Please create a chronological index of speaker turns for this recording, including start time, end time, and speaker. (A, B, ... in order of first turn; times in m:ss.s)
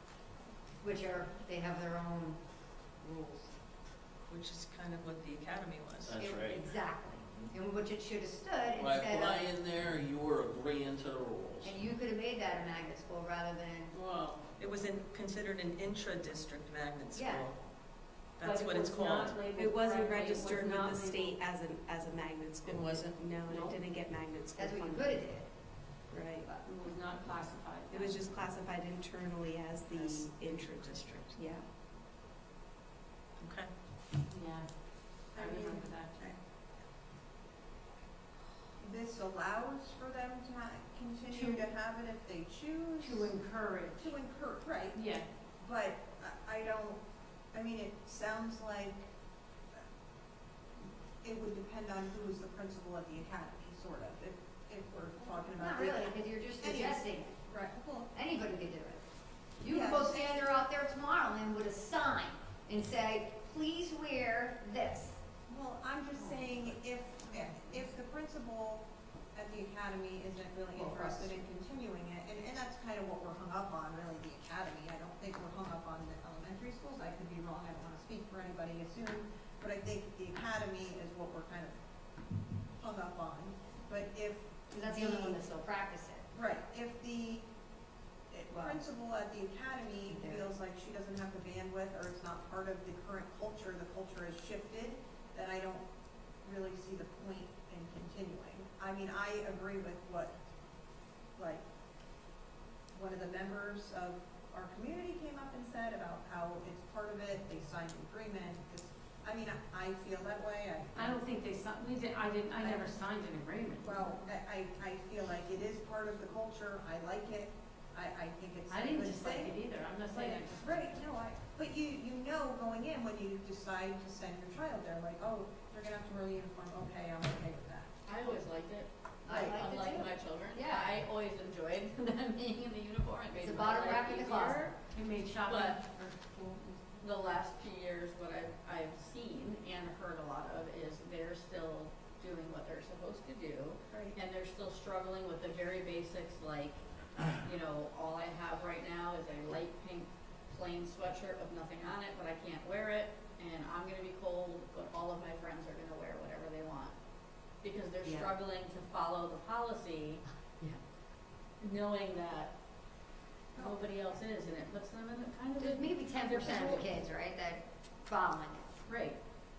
0:00.8-0:02.4 A
0:03.0-0:03.5 A
0:04.3-0:06.2 B
0:06.0-0:06.6 C
0:06.2-0:09.5 A
0:08.8-0:11.8 C
0:11.6-0:13.9 A
0:13.9-0:14.4 C
0:14.6-0:17.6 B
0:17.1-0:17.5 A
0:18.4-0:19.4 B
0:18.4-0:21.4 D
0:19.5-0:25.2 E
0:22.6-0:23.2 B
0:23.5-0:23.8 D
0:24.6-0:25.5 A
0:26.1-0:26.4 E
0:26.6-0:28.2 D
0:27.9-0:31.6 E
0:29.9-0:31.3 B
0:33.4-0:33.7 B
0:34.3-0:34.7 D
0:35.3-0:36.2 D
0:35.3-0:36.4 F
0:38.8-0:43.4 F
0:41.3-0:41.7 D
0:43.0-0:44.2 D
0:44.0-0:45.0 F
0:44.9-0:45.3 D
0:45.6-0:47.0 F
0:47.5-0:49.1 F
0:51.2-0:58.1 F
0:55.6-0:57.3 A
0:58.1-0:59.0 A
0:59.6-1:05.2 A
0:59.7-1:00.5 F
1:05.5-1:21.8 F
1:07.3-1:07.7 A
1:10.8-1:11.4 A
1:22.8-1:25.4 F
1:24.7-1:26.2 A
1:26.3-1:27.5 F
1:28.3-1:35.8 F
1:28.5-1:28.8 A
1:30.1-1:30.5 A
1:36.4-1:40.3 F
1:41.4-1:41.6 F
1:42.9-1:51.2 F
1:51.0-1:54.1 D
1:52.6-1:52.9 F
1:53.8-1:59.6 F
1:58.7-2:00.9 D
2:00.1-2:07.9 F
2:08.1-2:14.8 G
2:09.3-2:11.0 A
2:13.4-2:14.7 A
2:14.9-2:17.1 D
2:15.5-2:15.8 G
2:17.0-2:37.0 G
2:23.9-2:24.2 E
2:37.6-2:40.2 G
2:38.0-2:38.3 A
2:41.6-2:42.5 G
2:43.6-2:46.9 G
2:45.6-2:48.6 A
2:48.9-2:49.2 G